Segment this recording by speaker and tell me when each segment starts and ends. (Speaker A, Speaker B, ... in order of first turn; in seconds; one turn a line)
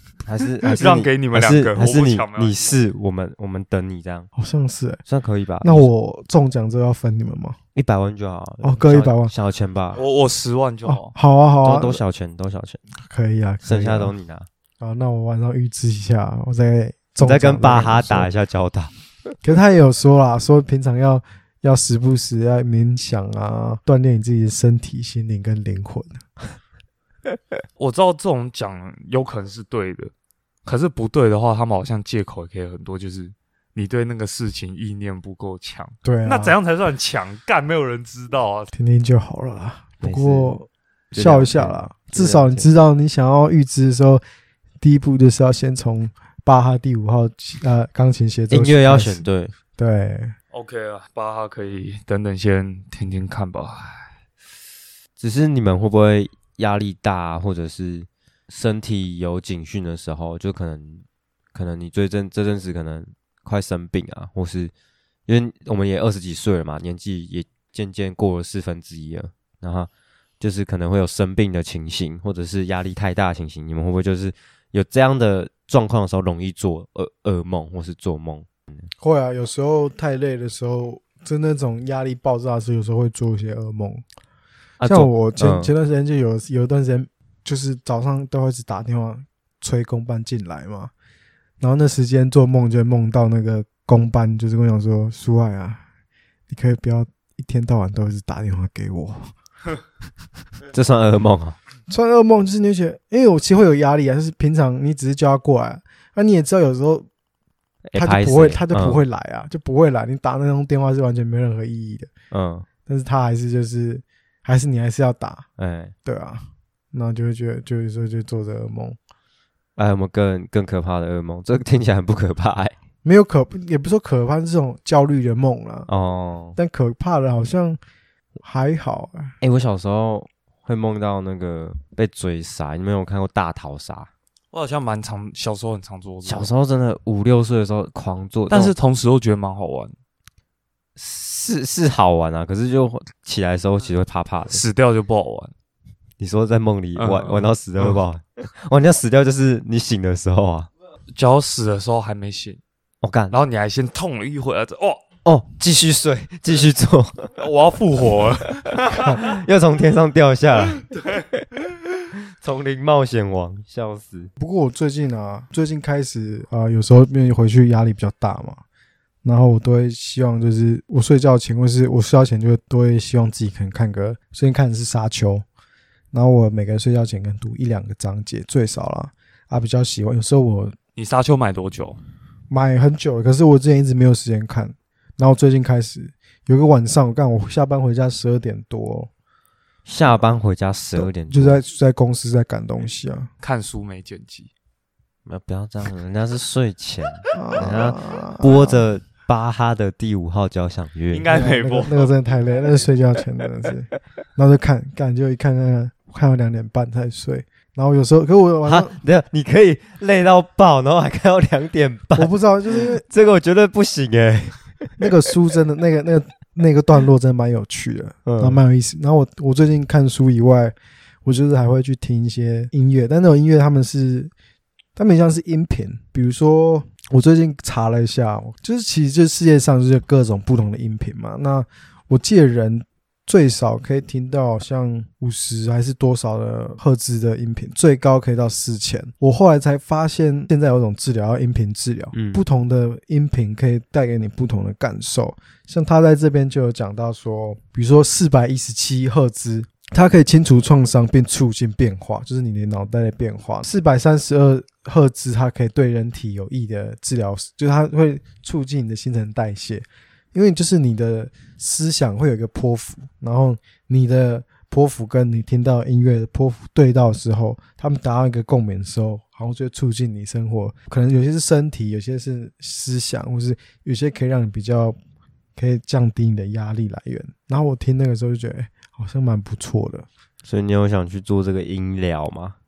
Speaker A: 0.2-4.3
Speaker B: 0.7-2.7
Speaker C: 4.4-5.0
Speaker A: 5.0-5.9
Speaker C: 5.6-7.6
Speaker A: 7.7-10.0
Speaker C: 8.6-9.3
Speaker B: 9.9-11.1
Speaker C: 10.8-12.0
Speaker A: 11.6-12.8
Speaker C: 13.0-14.1
Speaker A: 13.6-14.5
Speaker C: 14.8-18.3
Speaker A: 17.2-18.9
Speaker C: 19.4-26.2
Speaker B: 27.8-30.1
Speaker B: 30.6-38.7
Speaker C: 36.0-36.5
Speaker C: 38.7-44.2
Speaker A: 40.0-40.5
Speaker A: 41.1-42.7
Speaker C: 44.8-49.2
Speaker A: 48.5-49.5
Speaker C: 49.8-50.3
Speaker B: 50.5-54.1
Speaker A: 55.2-64.7
Speaker A: 65.3-69.9
Speaker A: 70.4-78.5
Speaker C: 79.0-84.0
Speaker A: 84.8-85.7
Speaker C: 84.8-90.9
Speaker C: 91.6-95.8
Speaker C: 96.5-99.3
Speaker A: 100.7-101.5
Speaker C: 101.9-107.1
Speaker A: 107.9-109.0
Speaker C: 108.0-112.1
Speaker A: 112.3-112.7
Speaker C: 112.8-115.5
Speaker A: 115.6-115.9
Speaker C: 116.0-119.0
Speaker A: 119.8-122.7
Speaker C: 123.0-125.9
Speaker A: 125.9-126.6
Speaker C: 126.5-127.8
Speaker C: 128.4-129.3
Speaker A: 129.4-134.1
Speaker B: 134.5-136.5
Speaker A: 136.2-138.7
Speaker B: 138.5-139.9
Speaker A: 141.0-144.6
Speaker B: 144.5-145.5
Speaker A: 146.2-150.7
Speaker B: 146.9-148.0
Speaker B: 151.1-152.6
Speaker A: 153.0-153.4
Speaker B: 153.3-155.0
Speaker A: 155.2-157.3
Speaker B: 157.4-159.2
Speaker A: 158.8-161.4
Speaker B: 160.9-161.2
Speaker A: 162.4-164.3
Speaker C: 164.4-168.6
Speaker C: 169.2-175.4
Speaker C: 176.1-180.7
Speaker B: 180.9-182.0
Speaker C: 182.5-189.1
Speaker A: 189.8-191.6
Speaker C: 190.9-193.3
Speaker B: 193.4-194.5
Speaker A: 195.2-201.3
Speaker C: 197.3-198.8
Speaker B: 201.1-202.1
Speaker C: 201.3-209.0
Speaker A: 208.6-215.0
Speaker C: 212.2-213.0
Speaker C: 215.0-224.3
Speaker A: 218.2-218.6
Speaker C: 224.9-275.0
Speaker A: 242.1-242.4
Speaker C: 275.6-280.1
Speaker A: 280.4-282.6